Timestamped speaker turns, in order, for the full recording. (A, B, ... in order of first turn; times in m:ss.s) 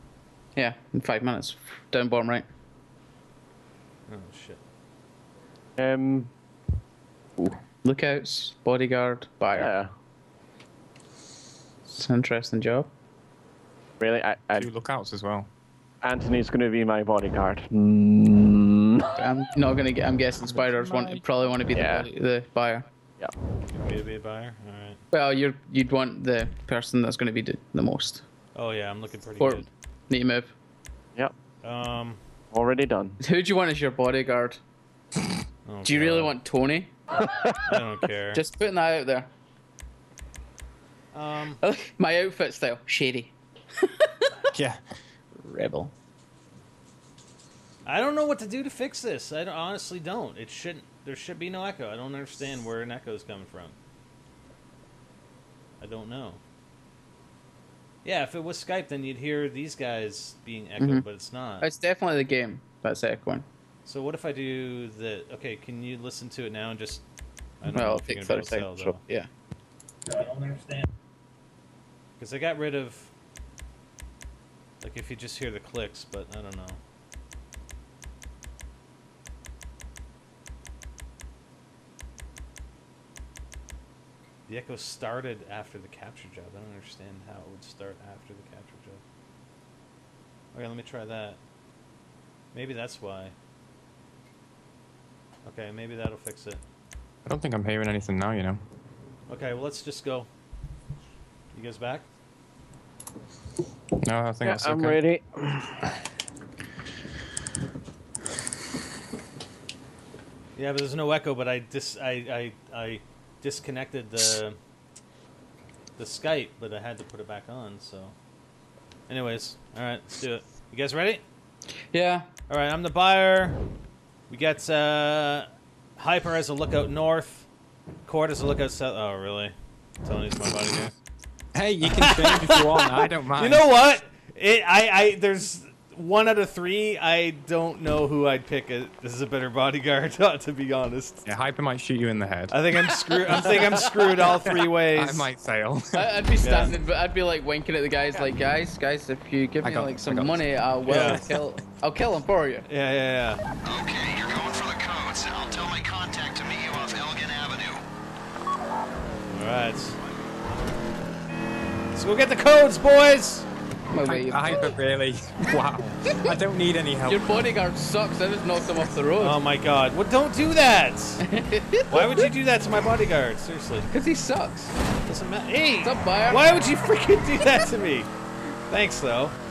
0:00.6-0:02.4 A
0:04.1-0:04.6 B
0:05.8-0:06.3 C
0:07.8-0:09.7 A
0:09.6-0:09.9 C
0:11.9-0:12.9 A
0:14.0-0:14.7 C
0:14.6-0:15.5 D
0:16.0-0:19.0 C
0:19.2-0:22.9 A
0:21.7-0:22.1 C
0:23.7-0:25.0 B
0:25.1-0:28.2 A
0:28.6-0:29.7 B
0:29.4-0:30.5 A
0:31.6-0:32.2 B
0:32.5-0:33.2 C
0:33.2-0:34.6 A
0:35.7-0:36.4 B
0:35.8-0:36.9 A
0:37.6-0:38.4 B
0:38.3-0:39.3 A
0:41.1-0:41.6 B
0:41.6-0:44.3 A
0:44.5-0:44.8 D
0:45.3-0:45.9 A
0:47.8-0:53.8 B
0:55.8-0:56.4 B
0:58.0-1:01.7 B
1:00.8-1:01.1 A
1:01.6-1:03.5 A
1:03.9-1:07.0 B
1:07.6-1:09.0 B
1:07.7-1:09.3 A
1:10.1-1:10.9 B
1:12.2-1:13.1 B
1:14.8-1:16.8 B
1:24.5-1:29.0 B
1:30.5-1:31.4 B
1:32.5-1:33.4 B
1:35.4-1:36.6 B
1:37.3-1:38.6 D
1:39.3-1:40.3 B
1:41.5-1:42.0 B
1:44.0-1:45.0 D
1:44.4-1:45.8 C
1:50.6-1:54.6 B
1:56.0-1:58.2 B
1:59.1-2:01.2 B
2:01.9-2:02.3 A
2:02.5-2:03.6 B
2:04.3-2:07.5 B
2:08.1-2:09.5 B
2:10.0-2:10.9 B
2:11.5-2:13.7 D
2:11.8-2:21.3 B
2:21.2-2:22.6 D
2:22.5-2:25.3 B
2:23.3-2:26.2 D
2:25.9-2:32.7 A
2:26.4-2:26.7 B
2:29.6-2:31.4 D
2:30.9-2:31.3 B
2:32.7-2:33.4 B
2:33.6-2:37.8 E
2:39.3-2:40.0 B
2:42.0-2:43.5 B
2:43.9-2:44.8 A
2:44.0-2:47.5 D
2:46.1-2:46.4 A
2:47.1-2:49.4 A
2:49.2-2:51.2 B
2:51.2-2:52.3 A
2:51.9-2:53.9 B
2:53.9-2:54.7 A
2:55.1-2:58.1 B
2:55.8-2:56.5 A
2:58.7-2:59.4 B